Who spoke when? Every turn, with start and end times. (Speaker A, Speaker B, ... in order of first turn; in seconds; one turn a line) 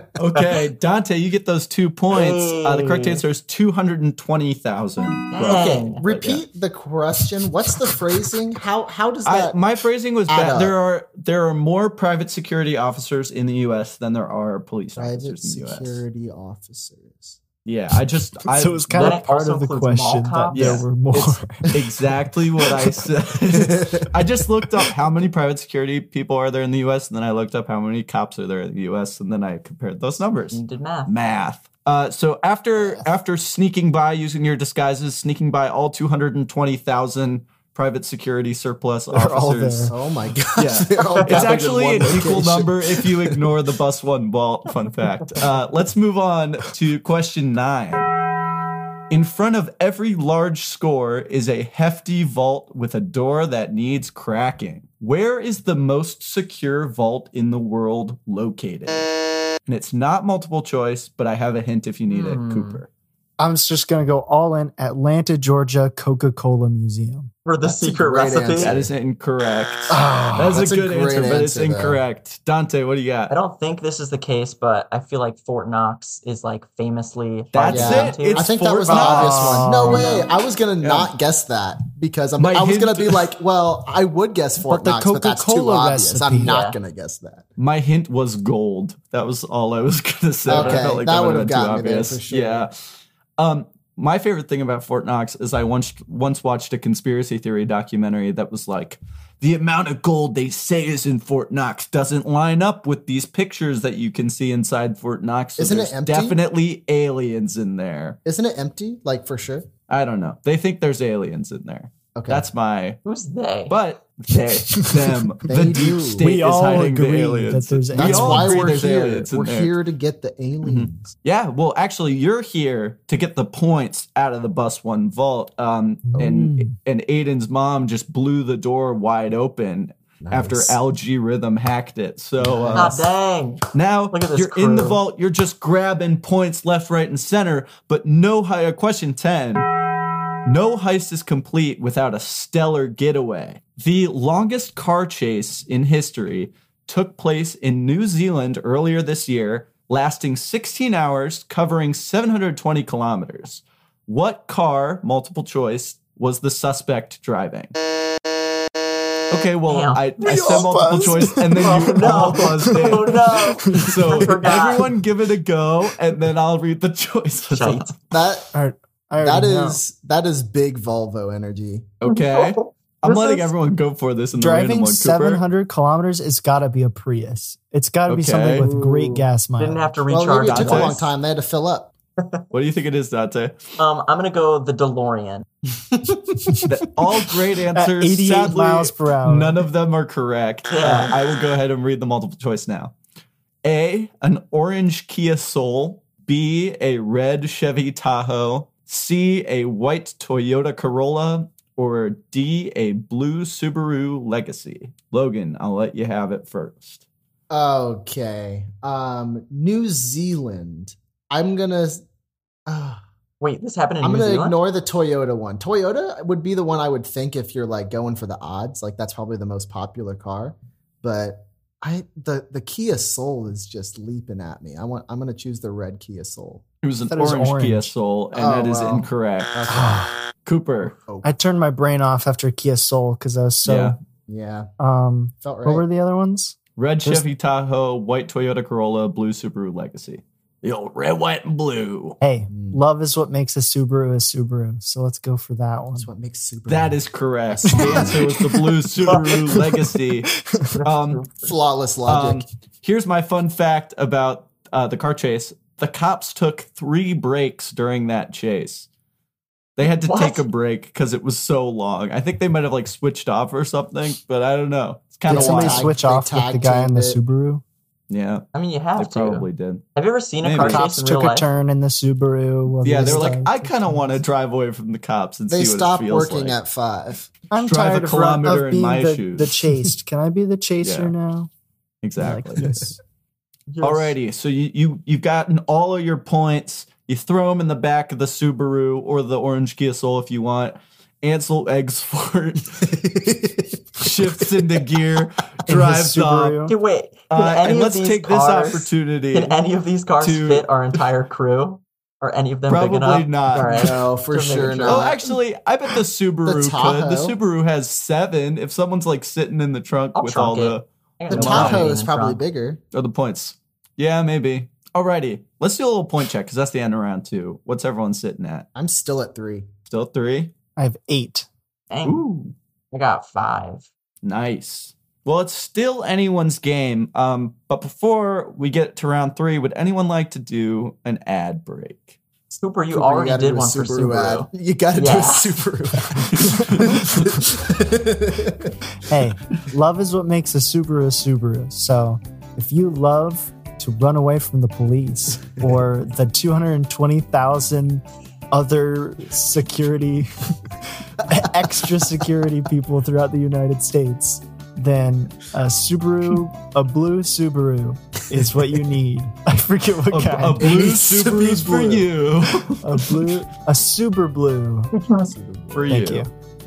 Speaker A: 0.2-5.9
Speaker B: 2.1-3.2
Speaker B: 5.3-6.4
Speaker C: 5.4-9.6
Speaker A: 9.2-16.0
Speaker C: 10.3-10.8
Speaker C: 15.0-17.4
Speaker A: 17.6-19.2
Speaker D: 18.5-23.0
Speaker B: 18.9-20.9
Speaker A: 20.5-39.9
Speaker C: 23.6-24.0
Speaker B: 30.5-31.1
Speaker D: 39.1-39.9
Speaker C: 39.9-43.5
Speaker A: 40.6-48.1
Speaker B: 41.0-41.7
Speaker A: 49.1-59.1
Speaker A: 59.7-62.9
Speaker B: 62.1-62.8
Speaker D: 63.4-67.3
Speaker B: 67.5-68.8
Speaker C: 67.6-68.9
Speaker A: 68.6-73.3
Speaker D: 69.9-70.6
Speaker C: 70.4-72.0
Speaker B: 73.3-79.2
Speaker A: 77.5-79.9
Speaker C: 77.7-87.5
Speaker D: 79.1-80.2
Speaker B: 79.8-80.3
Speaker A: 80.8-81.1
Speaker A: 82.4-83.3
Speaker D: 84.7-86.6
Speaker B: 86.4-86.8
Speaker A: 87.6-92.7
Speaker C: 90.5-92.7
Speaker B: 90.5-90.9
Speaker A: 93.4-108.2
Speaker C: 105.6-106.4
Speaker C: 108.2-109.7
Speaker A: 109.9-113.0
Speaker C: 112.2-112.5
Speaker B: 113.0-113.8
Speaker A: 113.7-119.7
Speaker D: 114.8-115.2
Speaker C: 115.5-116.3
Speaker D: 116.2-118.8
Speaker C: 117.9-121.1
Speaker A: 120.6-133.0
Speaker D: 126.0-126.7
Speaker C: 130.2-130.8
Speaker C: 132.4-132.9
Speaker B: 132.7-135.0
Speaker A: 133.7-139.7
Speaker A: 140.4-157.7
Speaker A: 159.3-168.0
Speaker B: 159.7-160.6
Speaker D: 160.2-162.9
Speaker B: 161.6-164.9
Speaker D: 163.7-164.3
Speaker B: 167.5-167.9
Speaker C: 168.1-168.5
Speaker D: 168.5-169.8
Speaker C: 169.2-171.9
Speaker A: 172.0-175.4
Speaker B: 172.1-173.5
Speaker D: 174.4-179.9
Speaker A: 178.1-178.7
Speaker C: 178.6-179.3
Speaker B: 179.6-181.1
Speaker C: 180.1-181.9
Speaker A: 180.4-181.0
Speaker B: 182.2-182.4
Speaker A: 182.5-183.8
Speaker B: 183.8-185.5
Speaker C: 186.4-186.7
Speaker A: 186.7-192.9
Speaker D: 187.7-189.6
Speaker B: 190.7-191.2
Speaker A: 193.6-207.0
Speaker C: 207.5-212.0
Speaker C: 212.7-213.0
Speaker B: 213.4-214.6
Speaker C: 214.0-226.6
Speaker A: 226.8-229.7
Speaker D: 227.1-227.9
Speaker C: 228.3-230.1
Speaker D: 229.7-230.2
Speaker A: 230.4-231.0
Speaker D: 231.2-234.0
Speaker A: 233.7-234.0
Speaker C: 234.3-234.7
Speaker D: 234.8-237.2
Speaker C: 235.4-235.8
Speaker A: 236.8-242.2
Speaker D: 242.2-246.1
Speaker C: 242.5-242.8
Speaker C: 246.0-248.4
Speaker A: 246.7-251.2
Speaker D: 247.8-250.8
Speaker B: 249.1-249.4
Speaker B: 250.8-251.5
Speaker C: 251.4-252.4
Speaker A: 252.1-258.9
Speaker A: 259.8-265.9
Speaker B: 259.8-260.5
Speaker C: 265.3-267.2
Speaker D: 265.3-267.6
Speaker A: 268.1-268.5
Speaker B: 268.5-271.5
Speaker A: 269.0-269.8
Speaker A: 270.4-270.8
Speaker D: 270.6-274.0
Speaker A: 272.8-276.6
Speaker C: 272.9-273.4
Speaker C: 275.5-277.3
Speaker D: 277.5-281.5
Speaker A: 277.6-279.6
Speaker A: 280.8-281.1
Speaker A: 282.0-282.7
Speaker D: 282.2-283.0
Speaker C: 282.6-282.9
Speaker B: 283.7-284.2
Speaker A: 283.8-292.9
Speaker C: 292.8-294.4
Speaker A: 294.0-296.6
Speaker D: 295.7-296.8
Speaker B: 296.7-305.2
Speaker A: 297.3-299.6
Speaker A: 300.2-300.7
Speaker A: 302.7-303.9
Speaker C: 303.7-305.3
Speaker A: 304.6-311.9
Speaker C: 306.4-307.4
Speaker B: 310.1-312.4
Speaker C: 311.3-312.8
Speaker A: 312.9-318.7
Speaker C: 318.8-319.7
Speaker A: 319.9-320.5
Speaker D: 320.8-321.5
Speaker B: 321.9-322.2
Speaker A: 322.1-322.5
Speaker B: 322.9-323.9
Speaker A: 324.2-332.2
Speaker B: 332.5-335.6
Speaker C: 332.9-338.8
Speaker A: 336.4-337.3
Speaker D: 339.0-350.5
Speaker C: 345.6-345.8
Speaker D: 351.1-360.7
Speaker C: 358.4-358.8
Speaker A: 360.1-363.1
Speaker C: 360.6-362.1
Speaker D: 362.8-364.9
Speaker C: 365.2-366.0
Speaker A: 365.7-366.3
Speaker D: 365.9-366.3